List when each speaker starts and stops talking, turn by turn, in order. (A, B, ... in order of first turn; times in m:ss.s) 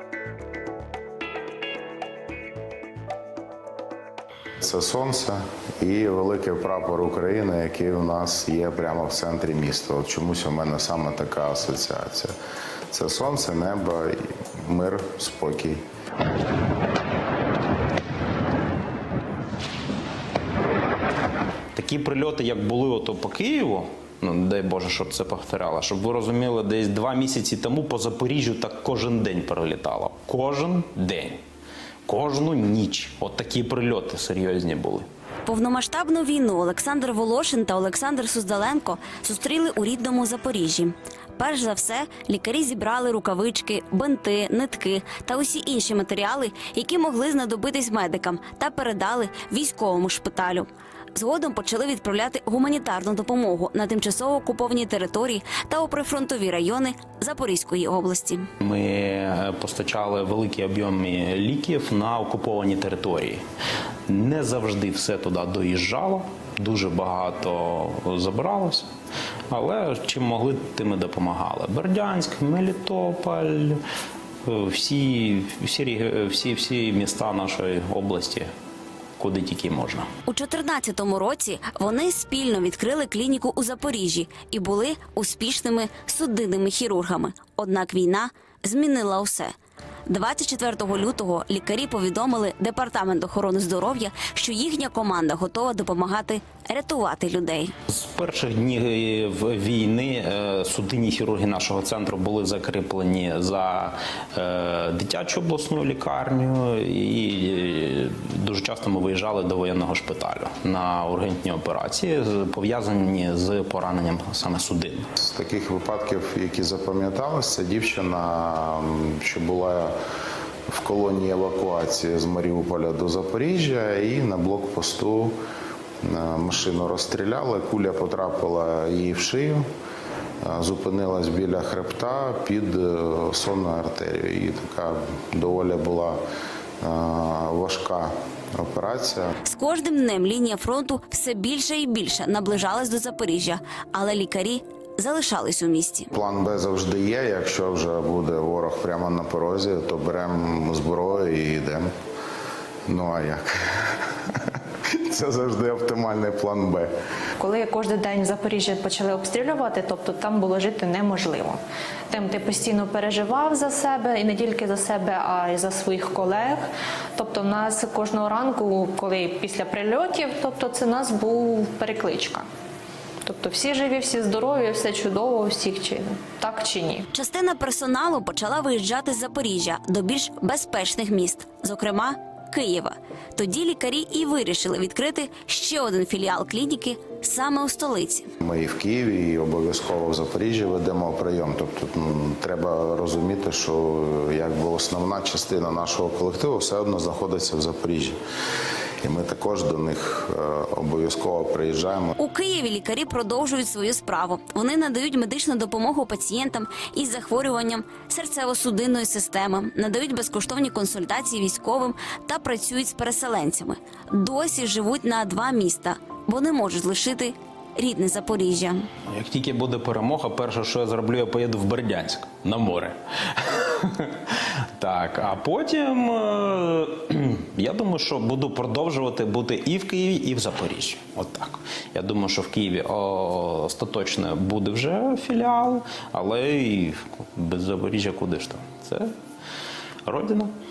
0:04.6-0:12.3 A
0:12.9-0:15.8 A
0:21.7-0:31.4 B
0:32.1-0:35.0 B
0:35.4-0:58.5 C
0:58.6-1:03.4 B
1:04.1-1:08.9 B
1:09.5-1:13.8 B
1:14.4-1:18.5 B
1:19.2-1:20.1 B
1:20.2-1:29.5 C
1:30.1-1:37.7 C
1:37.9-1:55.1 B
1:55.2-1:59.9 A
2:00.7-2:05.3 A
2:06.0-2:09.6 A
2:10.4-2:16.2 A
2:16.8-2:19.3 A
2:19.4-2:26.1 C
2:26.1-2:31.9 A
2:32.9-2:33.9 A
2:34.9-2:36.9 A
2:37.4-2:46.6 D
2:47.2-2:52.4 D
2:53.2-2:57.0 D
2:57.1-3:08.3 C
3:08.4-3:18.2 A
3:19.0-3:22.1 A
3:22.2-3:38.9 C
3:39.1-3:59.1 B
4:00.0-4:00.5 B